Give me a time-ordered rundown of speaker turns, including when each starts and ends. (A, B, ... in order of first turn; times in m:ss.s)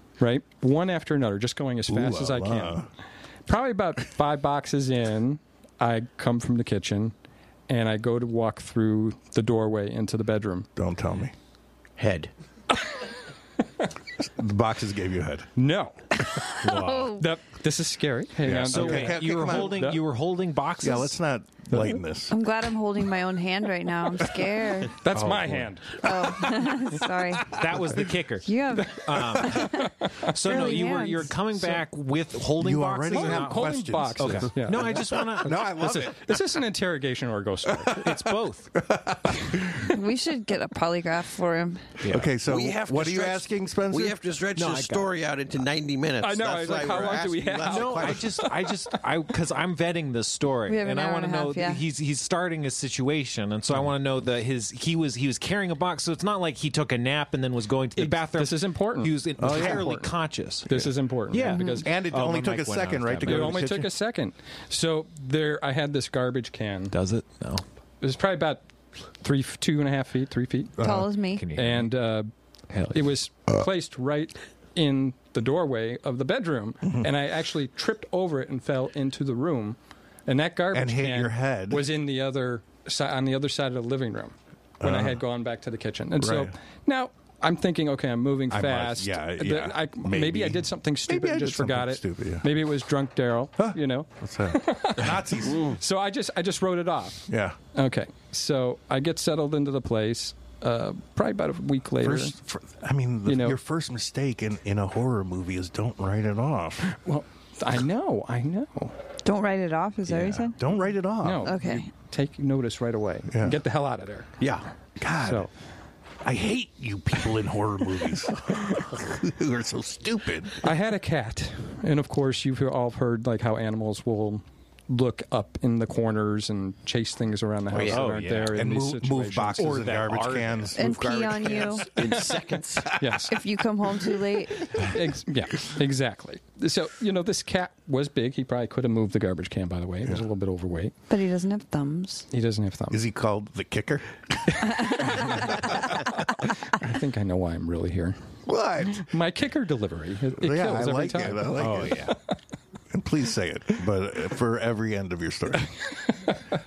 0:00.2-0:02.9 A
0:01.9-0:02.9 B
0:03.5-0:07.1 A
0:07.7-0:10.7 A
0:10.8-0:11.3 B
0:12.0-0:12.3 C
0:14.2-0:15.5 B
0:15.6-0:20.0 A
0:16.6-0:17.2 D
0:16.8-0:17.2 E
0:18.4-0:20.0 B
0:18.5-0:21.2 D
0:20.8-0:22.3 B
0:22.3-0:24.9 E
0:25.0-0:27.0 A
0:25.1-0:25.7 D
0:26.0-0:27.6 E
0:27.5-0:35.8 D
0:28.4-0:31.3 E
0:29.4-0:30.7 A
0:32.6-0:36.4 B
0:33.1-0:38.0 A
0:37.7-0:39.9 B
0:38.0-0:38.7 D
0:39.9-0:41.8 E
0:42.0-0:42.3 D
0:42.0-0:44.2 B
0:42.4-0:48.5 C
0:44.6-0:45.1 D
0:46.2-0:48.8 A
0:47.6-1:03.6 D
0:50.7-0:51.8 E
0:58.0-1:00.1 A
0:59.4-0:59.9 B
1:00.7-1:01.9 A
1:01.5-1:01.8 E
1:01.8-1:03.9 B
1:03.2-1:06.9 A
1:06.9-1:07.6 D
1:08.0-1:08.6 A
1:09.2-1:10.7 A
1:10.8-1:11.1 B
1:10.8-1:11.4 E
1:11.4-1:11.9 D
1:11.5-1:12.3 A
1:12.7-1:13.1 D
1:12.9-1:42.3 A
1:20.7-1:21.9 B
1:24.8-1:25.2 B
1:26.2-1:26.5 B
1:28.5-1:32.5 B
1:33.6-1:35.8 B
1:35.5-1:35.8 C
1:37.3-1:37.6 B
1:42.0-1:46.9 B
1:43.2-1:43.6 A
1:46.9-1:48.9 A
1:49.2-1:50.6 E
1:50.1-1:51.5 B
1:51.2-1:54.3 A
1:51.4-1:51.9 E
1:53.3-1:53.6 B
1:54.4-1:54.6 C
1:55.0-1:55.5 B
1:55.2-1:55.5 A
1:56.2-2:00.6 B
2:00.6-2:09.9 A
2:07.7-2:08.0 C
2:07.8-2:08.6 D
2:08.5-2:11.0 B
2:09.6-2:10.9 D
2:10.7-2:11.9 E
2:10.7-2:13.0 C
2:12.1-2:12.4 A
2:12.9-2:13.4 A
2:13.3-2:14.7 E
2:14.7-2:20.9 A
2:21.1-2:22.3 E
2:22.3-2:23.0 A
2:22.9-2:25.7 B
2:24.6-2:28.2 A
2:28.5-2:29.1 B
2:28.9-2:31.9 A
2:30.4-2:32.1 B
2:31.6-2:32.2 D
2:32.9-2:35.7 B
2:35.9-2:36.4 A